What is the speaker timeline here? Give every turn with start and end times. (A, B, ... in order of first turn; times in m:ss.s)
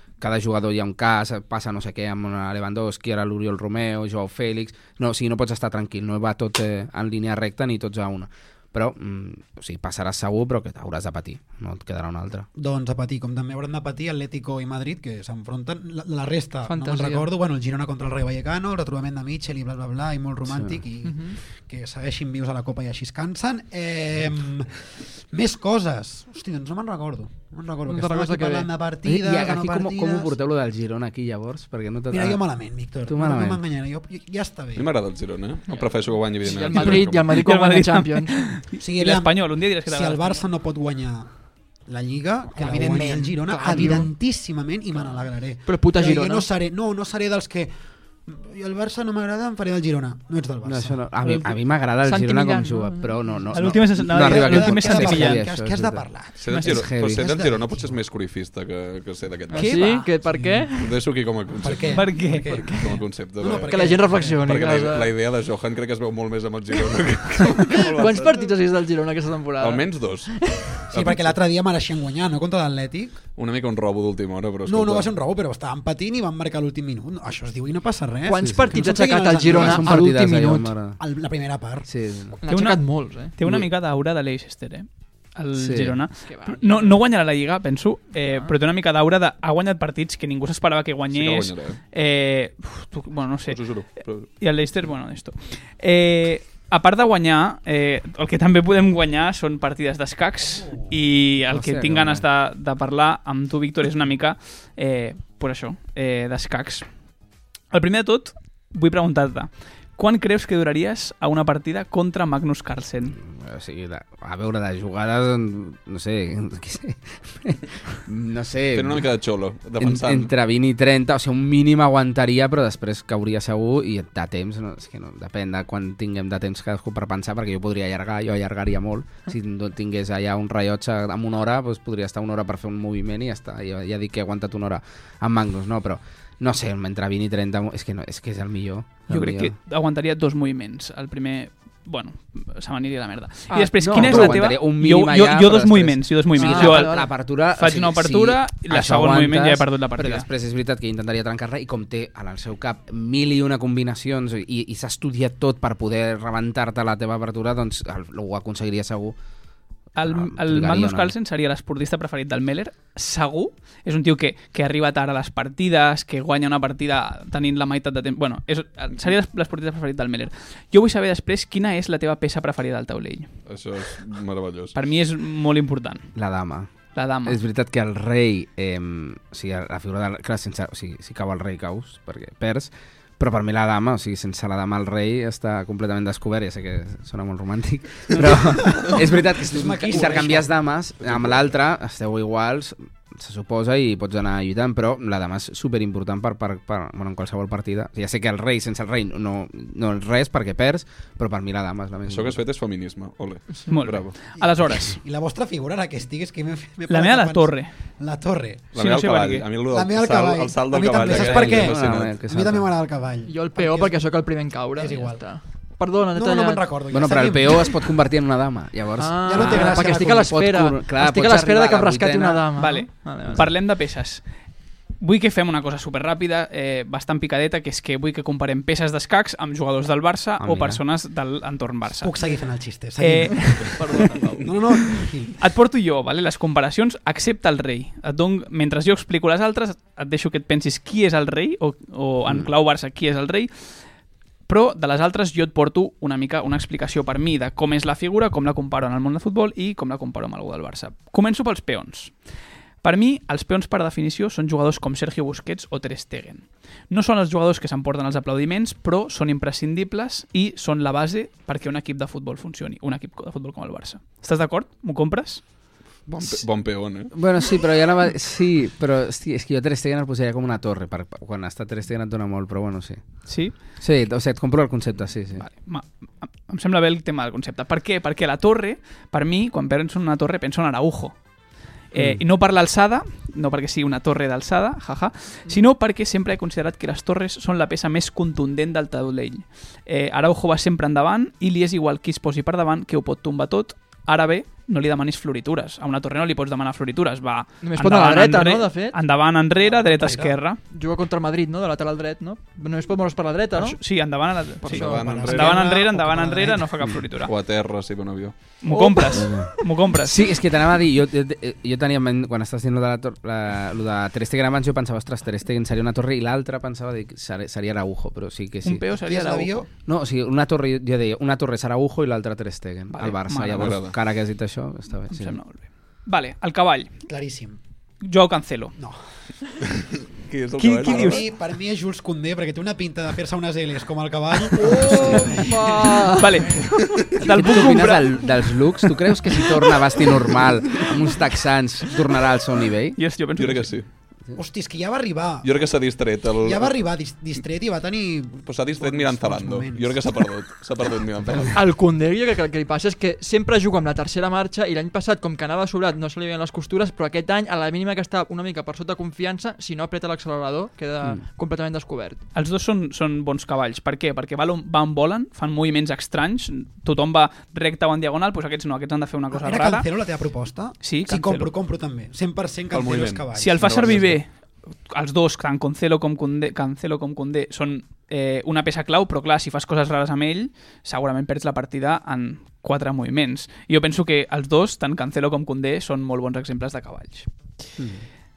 0:00.2-0:12.5 A
0:12.6-0:30.3 B
0:16.6-0:17.3 C
0:20.5-0:20.8 A
0:21.0-0:21.4 C
0:27.9-0:28.7 C
0:29.0-0:32.4 A
0:32.1-0:34.9 B
0:33.0-0:33.6 A
0:34.7-0:37.3 D
0:35.7-0:38.5 C
0:36.7-0:40.4 E
0:38.8-0:51.0 B
0:42.8-0:43.1 A
0:42.9-0:44.0 C
0:45.6-0:46.5 C
0:50.6-0:57.3 A
0:51.2-0:51.5 C
0:52.0-0:53.1 C
0:53.3-0:57.9 B
0:53.5-0:55.4 E
0:56.4-0:59.8 D
0:59.5-1:01.0 C
0:59.6-1:00.1 E
1:00.3-1:00.7 B
1:00.8-1:08.5 D
1:01.6-1:04.4 B
1:01.9-1:02.9 E
1:03.7-1:05.1 C
1:07.7-1:10.7 C
1:09.6-1:11.4 D
1:10.9-1:13.2 B
1:13.4-1:15.1 D
1:14.6-1:20.1 B
1:18.2-1:20.7 C
1:18.4-1:21.0 A
1:21.0-1:21.9 B
1:21.8-1:22.4 A
1:22.4-1:23.3 C
1:22.5-1:46.9 E
1:25.6-1:26.0 A
1:26.2-1:27.0 C
1:28.2-1:28.5 C
1:31.1-1:31.8 D
1:33.5-1:34.3 D
1:41.4-1:42.2 A
1:47.7-1:53.2 E
1:53.2-1:59.1 A
1:58.7-2:00.3 D
1:59.8-2:19.5 A
2:19.1-2:30.2 E
2:23.5-2:24.4 C
2:23.8-2:39.2 A
2:26.3-2:27.1 C
2:39.9-2:53.4 E
2:40.0-2:41.1 A
2:53.5-2:54.8 D
2:54.7-2:56.1 E
2:56.2-3:22.4 A
2:56.9-2:57.4 E
3:08.6-3:10.5 B
3:09.9-3:10.2 D
3:11.0-3:11.4 D
3:22.1-3:24.2 D
3:23.5-3:23.8 C
3:23.7-3:25.0 E
3:24.3-3:28.7 B
3:26.9-3:27.8 E
3:28.7-3:32.1 D
3:28.7-3:29.6 E
3:29.6-3:35.6 B
3:31.0-3:32.7 A
3:33.2-3:36.6 C
3:36.1-3:38.0 B
3:36.9-3:42.4 A
3:39.0-3:43.5 C
3:39.3-3:40.3 B
3:42.6-3:52.3 E
3:43.2-3:43.5 A
3:50.4-3:50.8 A
3:52.0-3:53.8 B
3:53.0-3:54.2 E
3:53.6-3:54.4 D
3:54.4-3:55.5 B
3:55.4-4:03.9 E
4:02.2-4:02.5 A
4:04.4-4:25.5 E
4:26.0-4:27.1 D
4:27.1-4:35.4 A
4:33.2-4:33.7 E
4:35.4-5:00.6 E
4:41.9-4:42.2 A
4:57.6-4:59.0 C
4:59.6-5:05.1 C
5:00.0-5:00.3 B
5:03.5-5:07.3 E
5:04.7-5:05.6 D
5:04.7-5:06.8 B
5:07.2-5:08.6 D
5:08.6-5:10.2 E
5:08.7-5:09.2 C
5:09.1-5:18.8 A
5:18.6-5:19.6 E
5:18.9-5:19.7 B
5:19.8-5:25.4 A
5:22.9-5:23.8 E
5:23.5-5:23.9 D
5:25.1-5:26.9 E
5:27.0-5:27.6 B
5:28.0-5:28.7 E
5:28.8-5:29.2 B
5:30.2-5:31.2 D
5:30.6-5:31.2 E
5:30.8-5:36.0 B
5:35.0-5:36.3 C
5:36.2-5:38.9 E
5:37.2-5:43.0 A
5:43.0-5:43.8 E
5:43.4-5:43.9 D
5:44.3-5:50.3 B
5:45.4-5:46.8 D
5:48.4-5:51.6 D
5:51.2-5:51.5 A
5:51.5-6:02.2 C
6:02.3-6:10.1 E
6:09.3-6:14.1 B
6:10.8-6:11.5 E
6:12.7-6:14.2 D
6:13.3-6:27.7 E
6:27.8-6:28.0 A